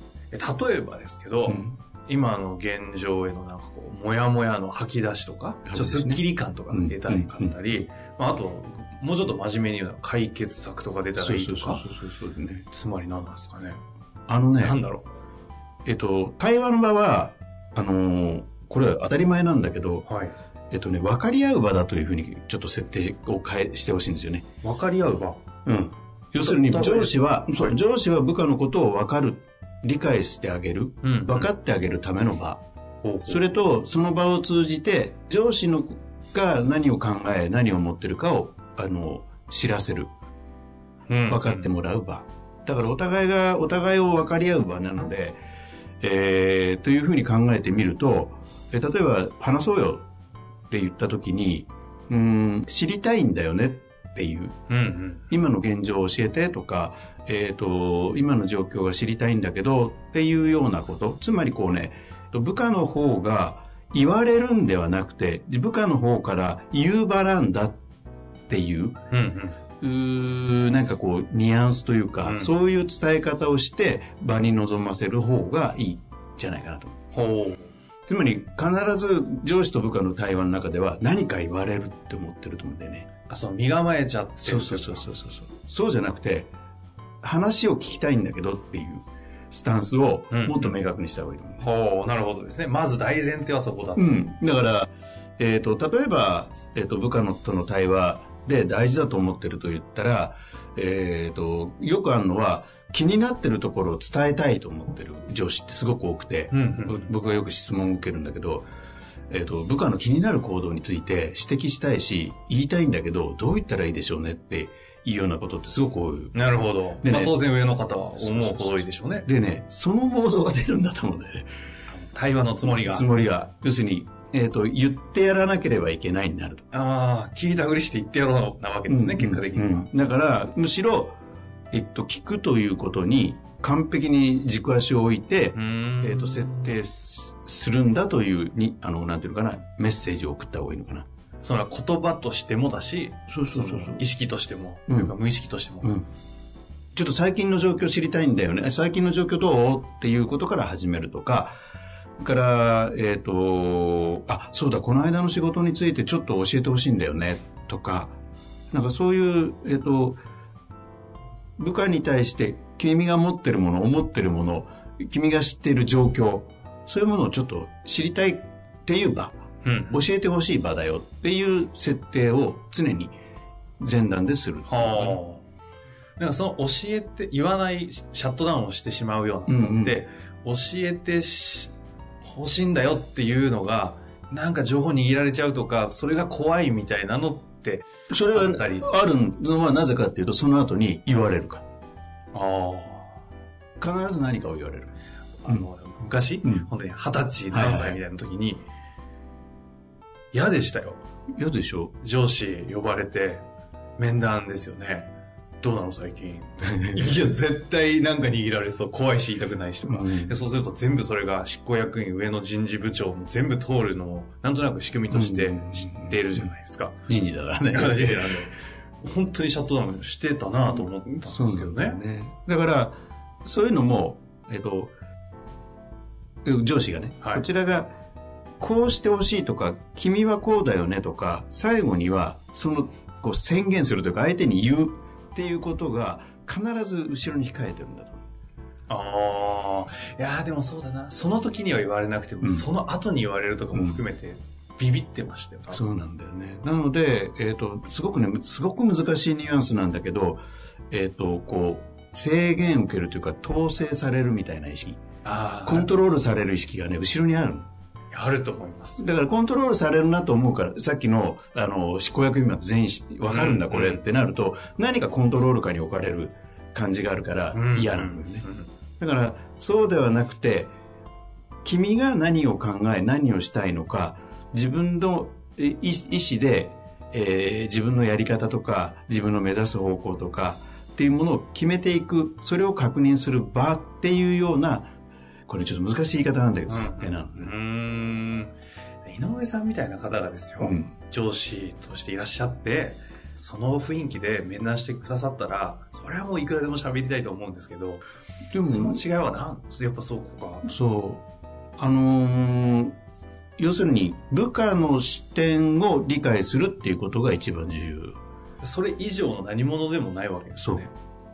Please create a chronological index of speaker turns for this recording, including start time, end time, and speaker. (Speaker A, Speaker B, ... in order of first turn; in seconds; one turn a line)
Speaker A: 0.3-11.9
Speaker B: 1.5-1.8
Speaker B: 5.7-7.5
Speaker B: 11.2-12.7
Speaker A: 12.7-13.8
Speaker B: 14.3-14.8
Speaker A: 14.6-15.1
Speaker B: 15.9-20.1
Speaker A: 20.1-20.3
Speaker B: 20.7-24.4
Speaker A: 24.6-25.4
Speaker B: 25.7-32.6
Speaker A: 26.4-27.8
Speaker A: 31.0-31.5
Speaker A: 33.0-33.5
Speaker B: 33.3-40.1
Speaker A: 41.1-41.7
Speaker B: 41.3-45.4
Speaker B: 46.0-50.0
Speaker B: 50.7-54.5
Speaker A: 54.7-55.3
Speaker B: 55.3-67.8
Speaker B: 68.5-69.0
Speaker A: 69.1-69.6
Speaker B: 69.8-77.0
Speaker A: 72.2-72.5
Speaker A: 77.1-77.7
Speaker B: 78.1-83.1
Speaker A: 83.3-85.1
Speaker B: 84.4-86.5
Speaker B: 87.2-91.7
Speaker A: 90.3-90.8
Speaker A: 91.6-94.2
Speaker B: 94.0-108.7
Speaker A: 106.5-107.1
Speaker B: 109.3-116.3
Speaker A: 116.3-119.3
Speaker B: 117.0-117.4
Speaker B: 118.2-121.5
Speaker A: 121.9-123.1
Speaker B: 122.6-126.6
Speaker A: 126.7-129.9
Speaker B: 128.9-131.2
Speaker B: 131.7-141.1
Speaker A: 135.6-136.7
Speaker A: 141.4-146.0
Speaker B: 143.3-144.0
Speaker B: 144.9-145.1
Speaker B: 146.9-151.6
Speaker B: 152.2-158.2
Speaker B: 158.7-160.2
Speaker B: 161.6-169.4
Speaker A: 169.6-170.0
Speaker B: 169.9-173.2
Speaker B: 173.8-175.2
Speaker A: 174.7-175.4
Speaker A: 176.2-188.9
Speaker B: 179.5-180.0
Speaker B: 188.1-191.6
Speaker A: 192.3-193.1
Speaker B: 193.8-194.9
Speaker A: 195.4-198.6
Speaker B: 197.5-198.0
Speaker A: 200.3-201.0
Speaker B: 201.4-201.9
Speaker A: 202.0-203.5
Speaker A: 204.0-217.0
Speaker B: 206.6-207.2
Speaker B: 209.9-210.4
Speaker B: 215.1-216.2
Speaker B: 217.1-218.4
Speaker A: 217.7-222.0
Speaker B: 221.1-224.9
Speaker B: 226.4-227.9
Speaker B: 228.6-238.2
Speaker A: 238.9-245.8
Speaker B: 242.4-242.7
Speaker B: 243.7-244.0
Speaker B: 245.7-255.0
Speaker A: 255.2-255.9
Speaker B: 255.7-257.7
Speaker A: 258.1-259.0
Speaker B: 259.0-268.5
Speaker A: 263.3-264.0
Speaker A: 267.5-268.7
Speaker B: 269.0-270.7
Speaker B: 271.6-284.9
Speaker B: 285.5-287.6
Speaker A: 286.7-298.0
Speaker B: 290.6-290.9
Speaker B: 298.5-299.0
Speaker A: 298.6-300.7
Speaker B: 300.6-301.2
Speaker B: 301.8-303.0
Speaker B: 303.6-308.2
Speaker A: 308.6-310.9
Speaker B: 310.6-310.8